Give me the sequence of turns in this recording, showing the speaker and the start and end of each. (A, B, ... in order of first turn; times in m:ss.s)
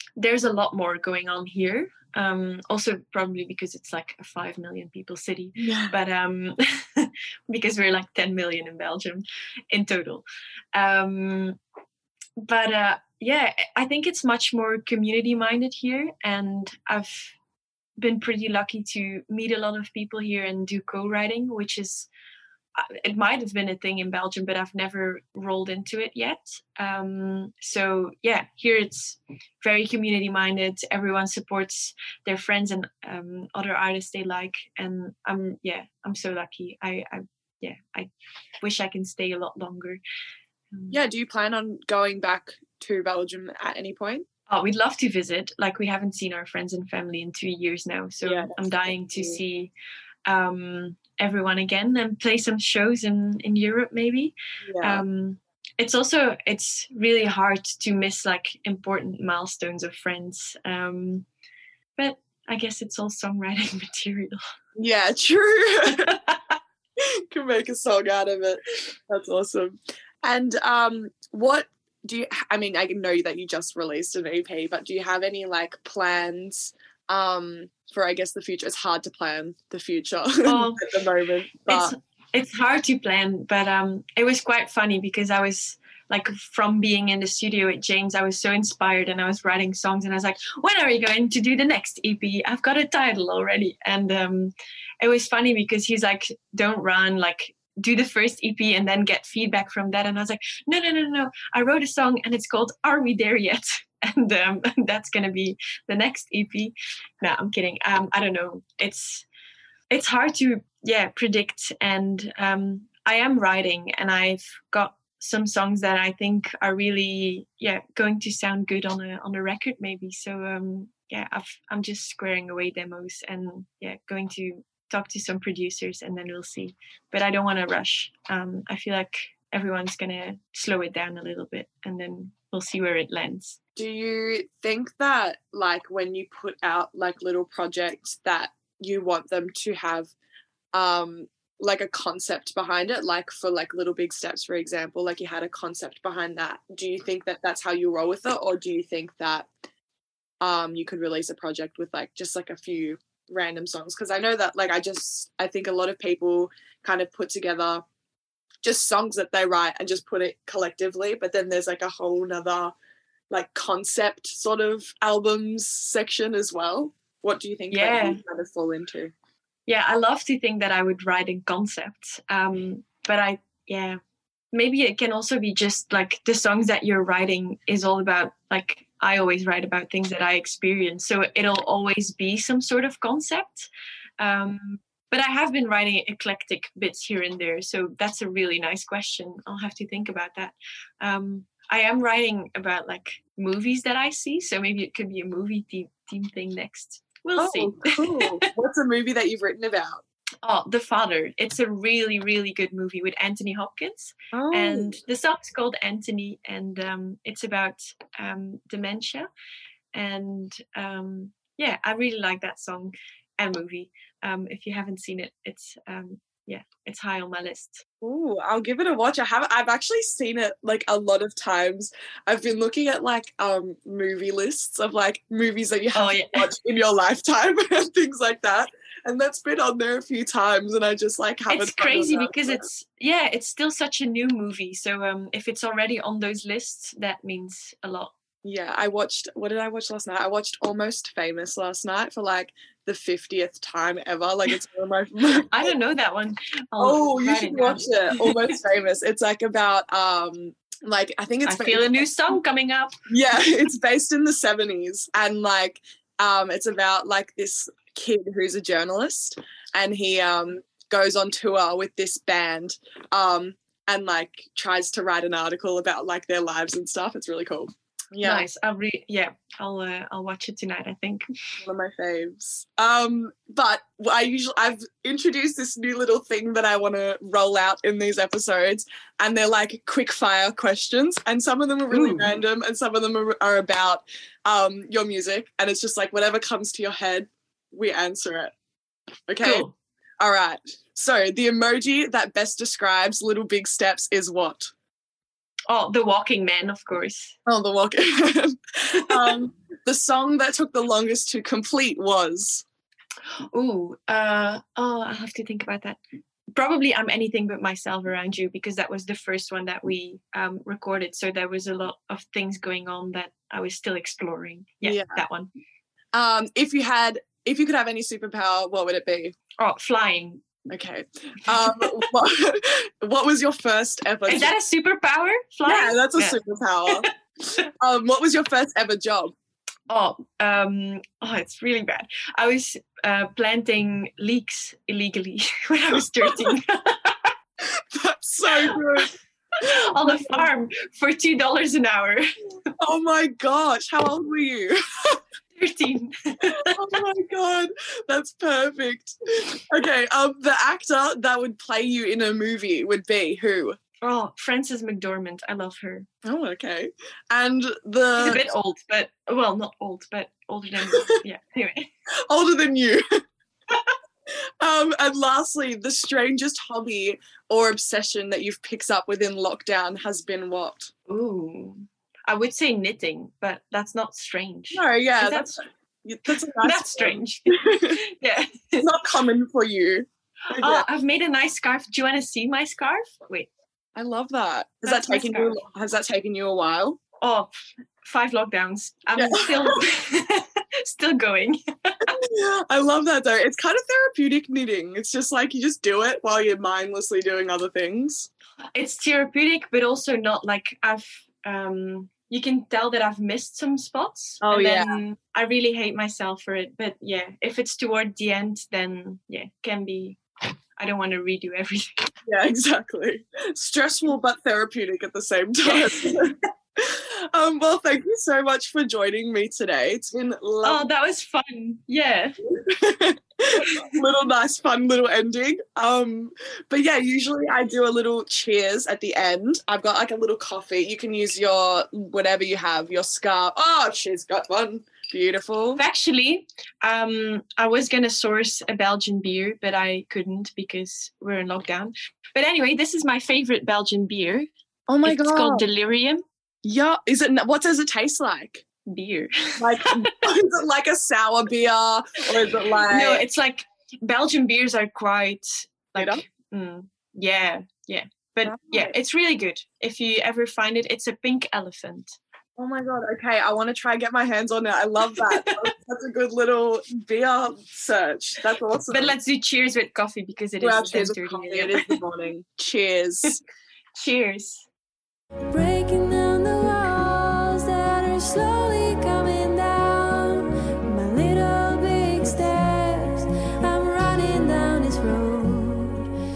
0:00.2-0:11.6 A
0:05.6-0:06.0 B
0:12.4-0:17.4 A
0:18.0-0:22.1 A
0:22.8-0:38.1 A
0:38.6-0:40.0 A
0:40.9-0:44.3 B
0:44.5-0:49.7 A
0:48.2-0:49.4 B
0:50.3-1:01.3 A
0:54.6-0:55.0 B
1:02.0-1:04.4 A
1:04.8-1:06.2 B
1:05.9-1:06.5 A
1:07.0-1:21.9 B
1:20.4-1:20.8 A
1:21.7-1:49.3 A
1:49.9-2:13.6 A
2:13.8-2:20.1 B
2:20.7-2:29.5 B
2:30.4-2:37.8 B
2:38.6-2:42.7 B
2:43.3-2:49.1 B
2:47.7-2:48.2 A
2:49.7-2:54.0 A
2:54.5-3:18.4 A
3:17.4-3:20.0 B
3:20.4-3:29.3 A
3:24.3-3:24.9 B
3:29.9-3:37.8 A
3:38.0-3:52.6 B
3:45.9-3:46.5 A
3:51.5-3:58.1 A
3:58.4-4:05.7 B
4:05.5-4:08.6 A
4:06.8-4:12.0 B
4:11.4-4:12.9 A
4:13.1-4:28.5 B
4:28.2-4:31.3 A
4:31.6-4:48.5 B
4:41.9-4:42.4 A
4:49.3-4:49.7 B
4:49.4-4:49.7 A
4:50.2-4:54.7 B
4:55.7-4:57.4 A
4:57.5-5:02.6 B
4:58.9-4:59.4 A
5:03.5-5:06.0 A
5:06.5-5:15.5 A
5:14.8-5:15.2 B
5:16.1-5:19.4 B
5:19.6-5:20.4 A
5:20.7-5:24.5 B
5:24.3-5:27.1 A
5:25.7-5:27.1 B
5:27.8-5:29.4 B
5:29.9-5:37.3 A
5:37.9-5:39.1 B
5:38.5-5:38.8 A
5:39.6-5:42.3 A
5:40.0-5:40.5 B
5:42.8-5:45.1 B
5:45.6-5:46.7 A
5:46.5-5:53.8 B
5:54.0-5:56.1 A
5:56.2-5:58.4 B
5:58.2-6:01.9 A
6:00.8-6:01.1 B
6:02.3-6:03.1 B
6:04.3-6:10.9 B
6:11.1-6:15.6 A
6:14.7-6:18.0 B
6:16.6-6:18.9 A
6:18.8-6:20.9 B
6:20.5-6:23.5 A
6:24.0-6:27.0 B
6:24.9-6:25.6 A
6:27.2-6:27.5 A
6:28.0-6:32.1 A
6:29.2-6:29.8 B
6:32.1-6:38.3 B
6:38.8-6:50.2 A
6:44.4-6:45.0 B
6:50.8-6:52.1 A
6:52.3-7:00.9 B
6:55.7-6:56.4 A
7:00.6-7:02.4 A
7:02.7-7:15.8 B
7:03.6-7:03.9 A
7:15.8-7:24.5 A
7:24.9-7:25.7 B
7:25.0-7:26.2 A
7:26.6-7:28.6 B
7:28.9-7:30.1 A
7:29.6-7:33.2 B
7:32.6-7:42.1 A
7:36.0-7:36.2 B
7:38.5-7:38.9 B
7:42.6-7:49.2 B
7:45.3-7:45.6 A
7:48.9-7:52.0 A
7:50.6-7:53.4 B
7:54.0-7:54.7 A
7:55.5-8:06.1 C